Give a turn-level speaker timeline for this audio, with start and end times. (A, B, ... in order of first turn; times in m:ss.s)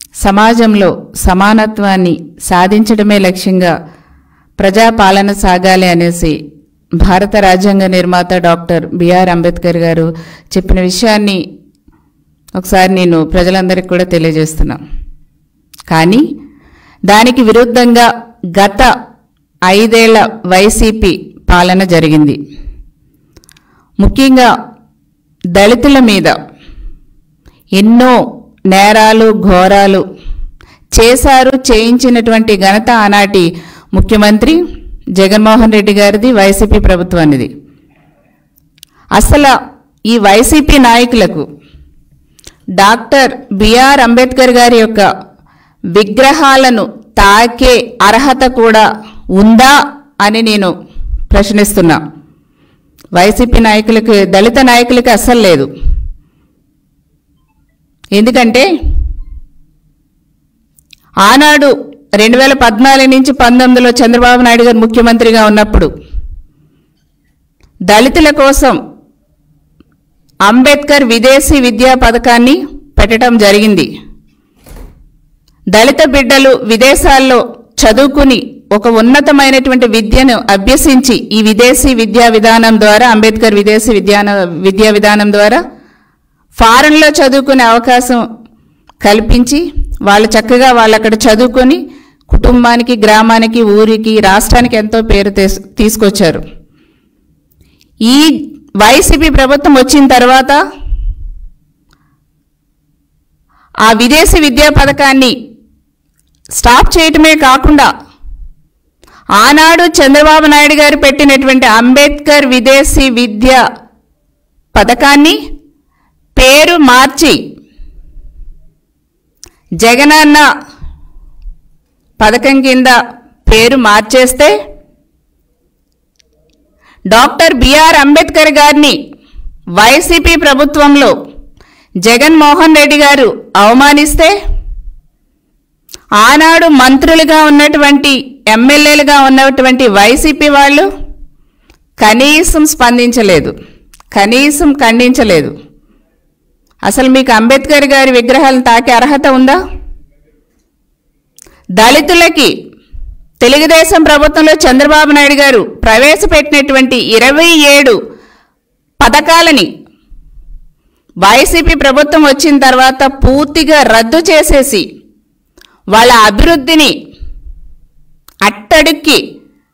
0:00.2-0:03.7 A
0:04.6-0:06.4 A
0:07.0-0:11.4 A
0:12.6-0:14.8 A
0:15.9-0:16.2 A
0:17.1-0:18.9 A
0:19.7-0:22.4 A
0:24.0-0:24.5 A
0:25.6-0:26.4 A
0:27.8-0:28.2 A
0:28.7-0:30.0 A
0:31.0-0:34.6 A
0:35.2-0:37.5 A
0:39.2-0:39.5 A
0:40.1-0:41.5 A
0:42.8-0:45.1 A
0:45.9-0:50.7 A
0:51.3-0:52.0 A
0:53.2-0:55.7 A
0:58.2-0:58.7 A
1:01.2-1:05.9 A
1:07.9-1:08.8 A
1:10.4-1:13.9 A
1:15.7-1:25.6 A
1:26.6-1:28.2 A
1:29.0-1:36.4 A
1:38.1-1:40.6 A
1:43.9-1:45.3 A
1:46.6-1:47.9 A
1:49.4-1:53.6 A
1:54.7-1:55.4 A
1:56.4-1:57.4 A
1:59.8-2:00.4 A
2:02.2-2:04.5 A
2:07.1-2:09.0 A
2:09.8-2:11.1 A
2:12.0-2:14.3 A
2:16.2-2:20.9 A
2:22.0-2:23.5 A
2:24.1-2:25.5 A
2:26.9-2:29.6 A
2:31.8-2:32.5 A
2:33.4-2:38.0 A
2:39.0-2:39.7 A
2:41.2-2:44.8 A
2:45.9-2:46.9 A
2:48.4-2:49.2 A